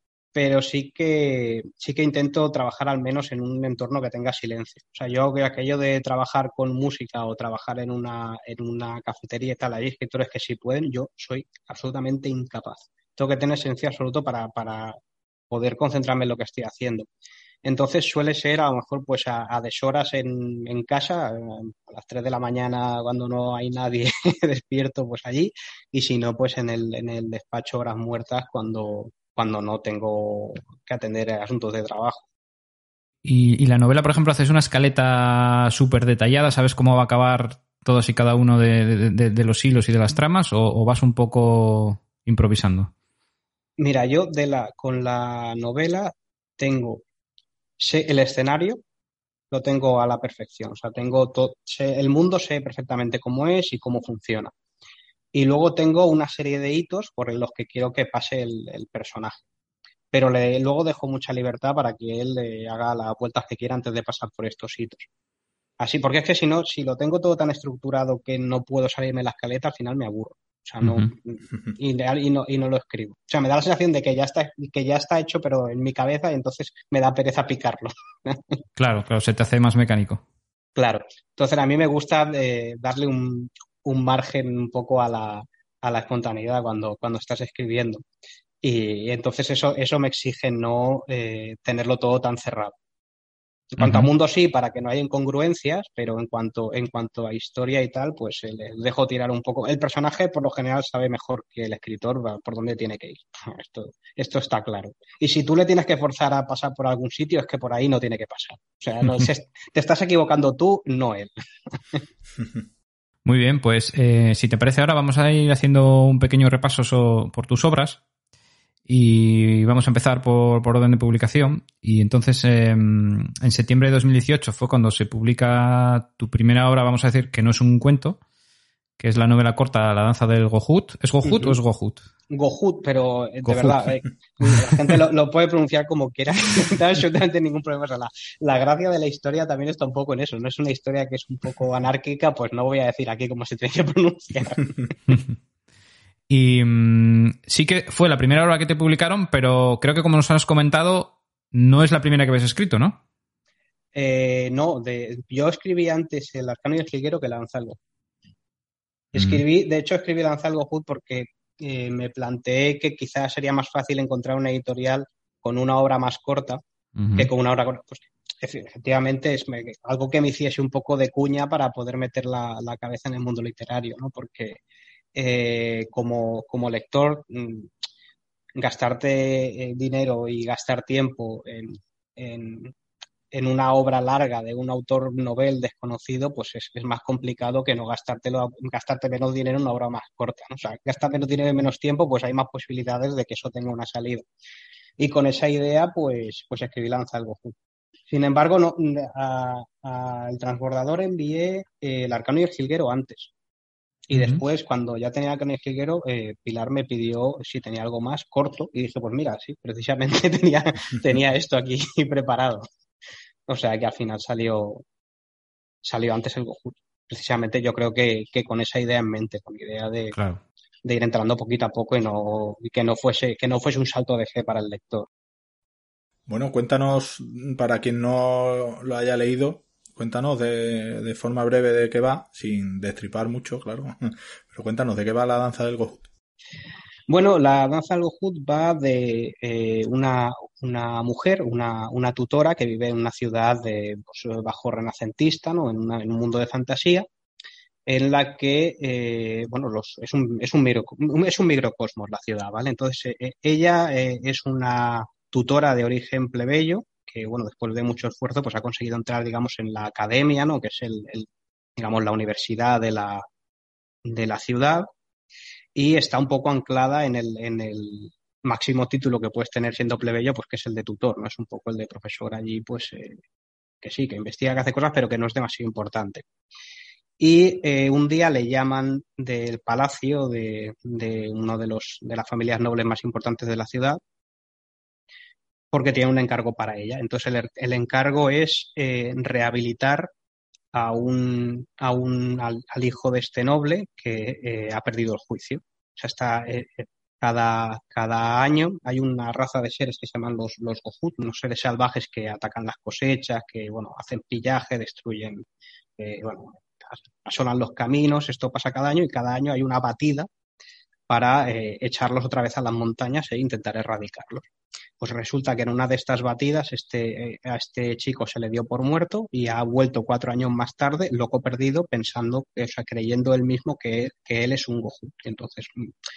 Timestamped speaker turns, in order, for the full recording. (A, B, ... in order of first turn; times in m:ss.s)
0:00.3-0:15.0 A
0:15.5-0:17.1 A
0:17.6-0:32.2 A
0:33.2-0:42.9 B
0:43.8-0:47.0 A
0:47.8-0:48.8 A
0:49.5-0:54.5 A
0:55.3-0:59.4 A
1:00.1-1:05.1 A
1:05.8-1:18.5 A
1:10.8-1:11.1 B
1:18.8-1:20.2 B
1:20.8-1:28.0 A
1:28.6-1:32.8 A
1:33.7-1:52.0 A
1:33.8-1:34.1 B
1:53.2-1:58.0 B
1:58.9-2:08.2 B
2:09.0-2:12.0 B
2:11.2-2:11.6 A
2:12.3-2:25.0 A
2:13.4-2:13.9 B
2:14.4-2:15.0 B
2:26.3-2:33.0 B
2:33.9-2:37.8 A
2:39.1-2:46.6 A
2:39.2-2:39.4 B
2:47.0-2:47.3 B
2:47.2-2:54.6 A
2:55.1-2:57.7 A
2:58.6-3:02.7 A
3:03.3-3:14.2 A
3:15.0-3:17.5 A
3:18.1-3:23.3 A
3:24.1-3:32.6 A
3:24.1-3:24.4 B
3:33.5-3:34.8 A
3:35.8-3:40.2 A
3:40.1-3:40.4 B
3:40.8-3:45.1 A
3:46.3-3:56.0 C
3:57.1-4:07.0 A
4:07.9-4:23.2 A
4:24.0-4:24.9 A
4:25.7-4:33.2 A
4:33.8-4:36.2 A
4:37.2-4:44.0 A
4:45.7-4:50.1 A
4:50.7-5:05.4 A
5:06.0-5:10.3 A
5:11.1-5:14.4 A
5:15.0-5:25.9 A